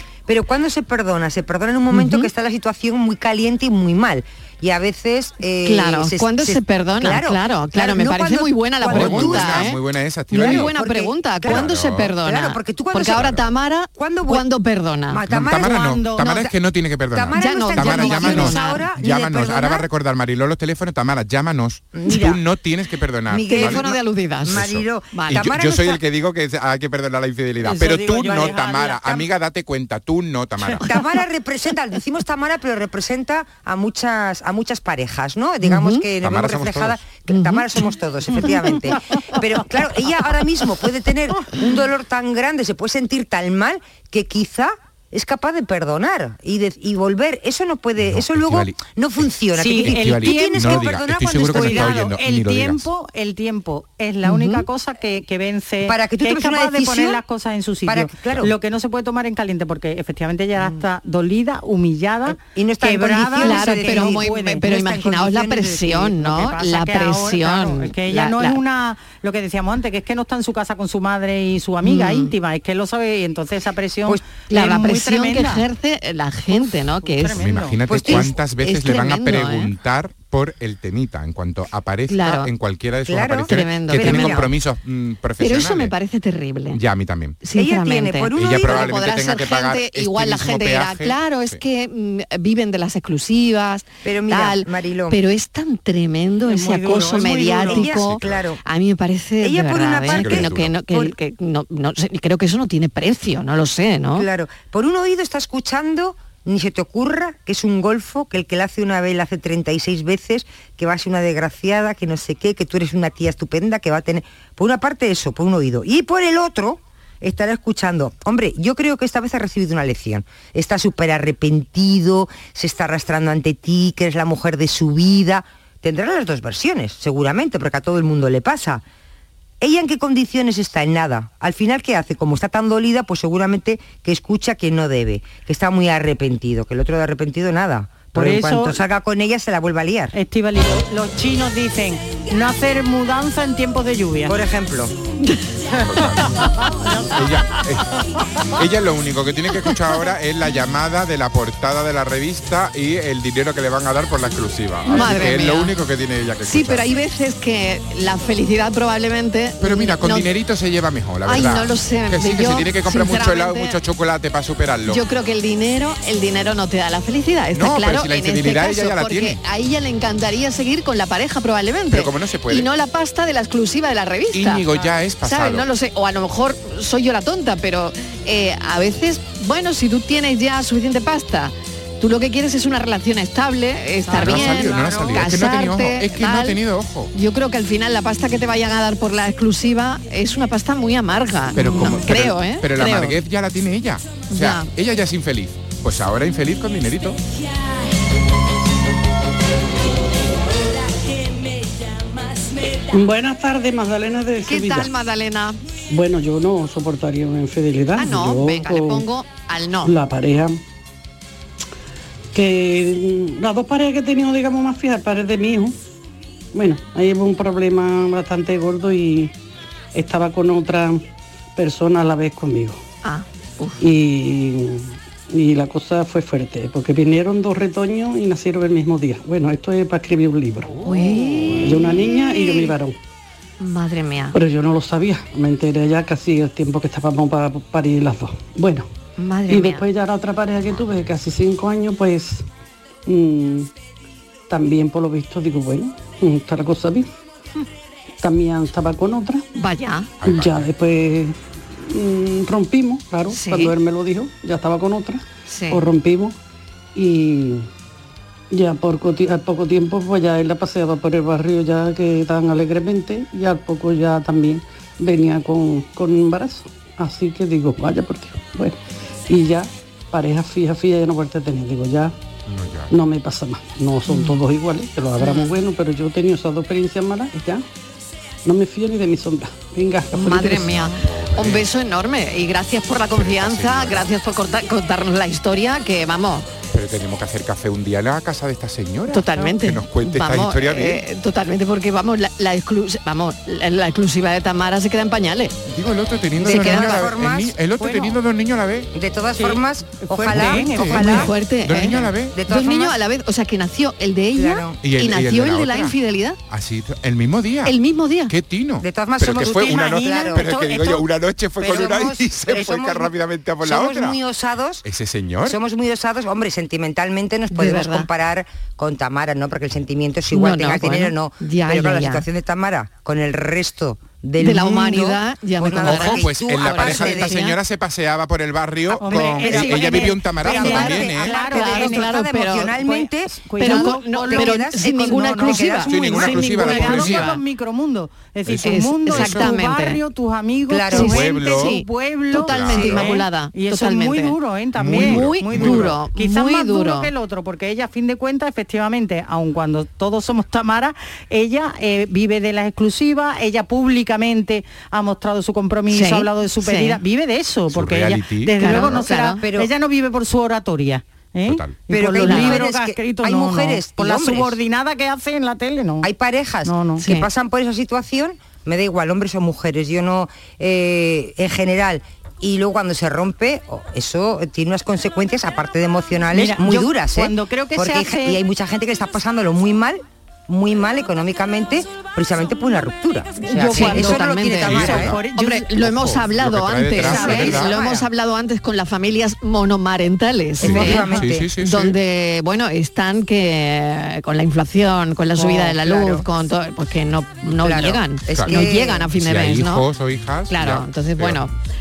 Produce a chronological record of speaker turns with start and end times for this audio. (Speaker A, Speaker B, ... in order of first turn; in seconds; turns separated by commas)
Speaker A: 0.3-9.7, Speaker B: 1.9-2.3, Speaker B: 5.6-9.8, Speaker C: 8.9-10.7, Speaker B: 10.3-15.2, Speaker A: 10.3-13.4, Speaker C: 11.4-12.1, Speaker C: 13.1-13.4, Speaker A: 13.9-14.4, Speaker A: 15.1-16.5, Speaker C: 15.3-30.9, Speaker D: 15.5-16.3, Speaker A: 17.1-19.9, Speaker B: 17.4-18.8, Speaker A: 21.9-22.4, Speaker A: 23.3-26.0, Speaker B: 23.5-25.5, Speaker D: 27.6-29.0, Speaker A: 28.3-29.2, Speaker A: 30.8-52.0, Speaker B: 35.6-36.0, Speaker C: 36.2-37.0, Speaker B: 37.3-37.6, Speaker D: 38.4-38.8, Speaker C: 48.0-49.3, Speaker D: 49.5-64.6, Speaker C: 49.8-52.9, Speaker B: 54.2-54.6, Speaker A: 55.8-57.2, Speaker A: 57.9-58.5, Speaker A: 62.3-65.9, Speaker B: 63.4-68.6, Speaker D: 65.9-75.6, Speaker B: 71.8-72.3, Speaker B: 74.5-77.4, Speaker D: 76.5-77.8, Speaker C: 77.3-85.9, Speaker A: 77.9-78.4, Speaker B: 78.0-79.7, Speaker B: 82.1-82.5, Speaker A: 83.0-84.5, Speaker B: 83.5-84.4, Speaker B: 85.4-86.8, Speaker C: 86.7-87.4, Speaker B: 87.4-104.3, Speaker A: 87.5-88.9, Speaker C: 88.3-91.6, Speaker A: 94.0-95.2, Speaker D: 96.5-97.9, Speaker A: 97.1-98.6, Speaker C: 98.1-98.5, Speaker A: 99.4-101.1, Speaker C: 100.1-100.7, Speaker A: 104.1-128.8, Speaker A: 129.6-140.1, Speaker D: 138.1-138.8, Speaker D: 140.1-144.4, Speaker A: 144.2-144.9, Speaker D: 145.7-147.1, Speaker C: 145.8-146.4, Speaker C: 147.1-157.0, Speaker B: 154.9-155.7, Speaker B: 156.4-160.3, Speaker C: 159.6-165.0, Speaker B: 161.2-163.8, Speaker B: 164.9-174.6, Speaker C: 167.5-169.4, Speaker C: 171.9-172.7, Speaker C: 174.3-175.7, Speaker B: 175.2-186.6, Speaker D: 184.1-185.2, Speaker C: 184.1-187.1, Speaker B: 187.1-193.2, Speaker C: 191.5-197.2, Speaker B: 194.3-194.7, Speaker E: 202.9-204.9, Speaker B: 204.4-205.6, Speaker E: 205.9-209.1, Speaker B: 207.9-209.9, Speaker E: 209.8-210.6, Speaker E: 212.3-215.8, Speaker E: 216.5-219.3, Speaker E: 219.9-221.0, Speaker E: 221.6-222.8, Speaker B: 223.0-223.8, Speaker E: 223.8-232.9, Speaker B: 230.8-232.7, Speaker B: 233.6-234.4, Speaker E: 234.3-238.9, Speaker B: 239.2-239.8, Speaker E: 239.5-242.4, Speaker E: 243.1-243.7, Speaker E: 244.5-247.1, Speaker E: 248.2-249.4, Speaker B: 249.5-250.1, Speaker C: 250.2-250.7, Speaker E: 250.2-256.4, Speaker B: 253.3-253.7, Speaker B: 255.5-255.8, Speaker E: 256.9-257.7, Speaker E: 258.5-272.1, Speaker C: 272.4-272.9, Speaker E: 272.9-277.6, Speaker B: 274.1-274.4, Speaker B: 275.2-275.5, Speaker E: 278.4-280.9, Speaker B: 280.1-286.5, Speaker C: 280.6-281.7, Speaker C: 283.1-284.1, Speaker C: 286.7-291.0, Speaker B: 289.1-295.5, Speaker C: 295.6-298.9, Speaker A: 296.4-297.6, Speaker B: 296.4-297.0, Speaker D: 297.8-298.2, Speaker A: 298.9-301.3, Speaker D: 299.4-301.3, Speaker C: 300.3-302.4, Speaker B: 300.9-306.4, Speaker A: 302.0-303.0, Speaker A: 304.3-304.8, Speaker C: 304.8-307.8, Speaker B: 307.6-308.3, Speaker C: 308.3-314.2, Speaker A: 308.8-310.5, Speaker D: 309.2-311.0, Speaker A: 311.6-314.8, Speaker C: 314.8-315.6, Speaker A: 315.4-327.4, Speaker B: 317.5-318.1, Speaker B: 320.3-322.2, Speaker B: 324.4-327.6, Speaker C: 325.8-331.3, Speaker D: 329.0-332.1, Speaker A: 329.1-337.0, Speaker B: 330.6-332.8, Speaker D: 332.7-366.1, Speaker B: 333.6-337.4, Speaker C: 335.9-337.4, Speaker C: 338.4-339.5, Speaker B: 338.6-340.0, Speaker A: 340.7-341.2, Speaker C: 340.9-341.8, Speaker B: 340.9-344.4, Speaker C: 342.3-343.2, Speaker C: 344.8-346.0, Speaker B: 344.9-347.1, Speaker B: 355.9-357.0, Speaker C: 357.7-358.8, Speaker B: 358.6-359.4, Speaker A: 359.4-359.7, Speaker C: 361.4-361.8, Speaker A: 361.9-364.6, Speaker B: 362.2-362.6, Speaker A: 366.0-385.2, Speaker D: 366.6-367.0, Speaker B: 367.0-367.3, Speaker D: 376.3-378.4, Speaker D: 383.4-385.7, Speaker B: 383.7-399.8, Speaker C: 384.6-385.2, Speaker C: 385.7-387.7, Speaker A: 387.0-388.1, Speaker D: 387.1-387.5, Speaker A: 390.6-391.5, Speaker C: 390.6-392.0, Speaker A: 395.4-396.2, Speaker A: 397.4-399.1, Speaker C: 398.3-401.4, Speaker B: 400.5-401.5